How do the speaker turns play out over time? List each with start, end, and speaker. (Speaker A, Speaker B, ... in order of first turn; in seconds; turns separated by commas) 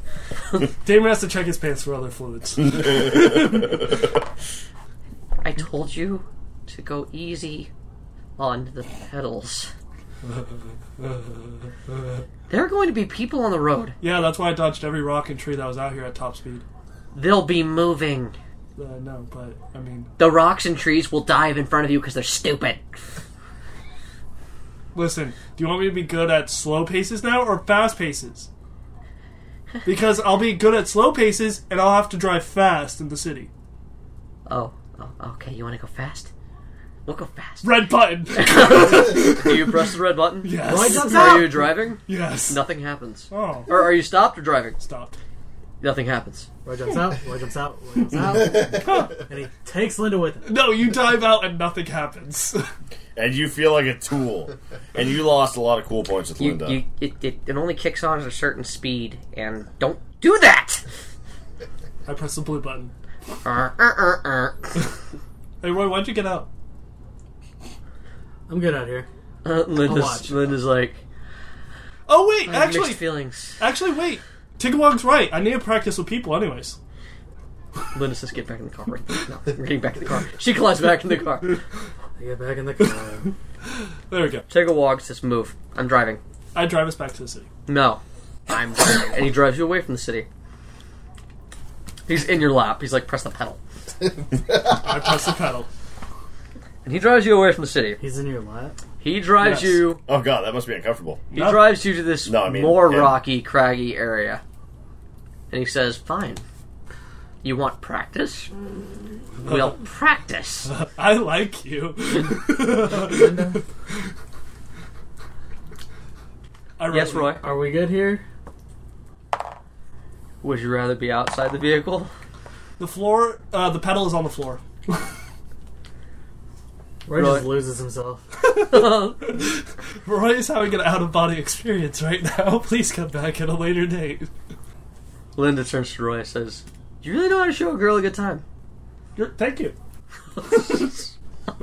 Speaker A: 0.8-3.8, Speaker B: 5.4-7.7, Speaker B: 8.4-9.7, Speaker A: 10.2-12.2, Speaker B: 12.5-13.9, Speaker A: 14.0-16.6, Speaker B: 17.1-18.4, Speaker A: 18.8-20.1, Speaker B: 20.2-23.0, Speaker A: 24.9-28.5, Speaker A: 29.9-33.5, Speaker B: 34.5-36.3, Speaker B: 37.1-44.8, Speaker A: 37.6-39.9, Speaker A: 40.4-42.6, Speaker C: 40.6-41.7, Speaker A: 43.3-43.7, Speaker A: 44.8-45.2, Speaker B: 45.8-46.5, Speaker C: 46.6-50.5, Speaker A: 48.7-49.2, Speaker A: 50.5-52.7, Speaker D: 53.2-56.8, Speaker B: 56.4-60.8, Speaker A: 62.1-62.9, Speaker B: 63.4-64.7, Speaker A: 65.6-66.5, Speaker C: 68.5-69.1, Speaker B: 69.4-71.0, Speaker C: 69.8-70.5, Speaker A: 72.1-76.8, Speaker B: 72.5-73.6, Speaker B: 77.9-81.6, Speaker C: 82.2-83.3, Speaker A: 84.1-84.5, Speaker B: 84.5-86.2, Speaker A: 86.5-87.5, Speaker B: 87.7-90.3, Speaker B: 92.1-93.6, Speaker A: 94.7-95.7, Speaker B: 96.8-98.0, Speaker C: 98.0-98.8, Speaker B: 99.0-100.0, Speaker A: 99.4-99.9, Speaker D: 100.1-101.2, Speaker A: 101.3-101.8, Speaker B: 101.3-104.4, Speaker D: 102.2-103.2, Speaker B: 105.5-106.4, Speaker B: 107.4-108.5, Speaker B: 109.4-110.7, Speaker A: 109.4-109.7, Speaker A: 110.8-114.1, Speaker C: 113.0-113.6, Speaker A: 116.8-117.4, Speaker B: 116.9-117.4, Speaker C: 117.4-118.2, Speaker B: 120.4-122.1, Speaker A: 122.8-124.6, Speaker C: 127.1-128.3, Speaker B: 127.2-127.6, Speaker A: 128.4-134.3, Speaker B: 128.7-129.4, Speaker B: 135.4-138.4, Speaker A: 139.2-139.8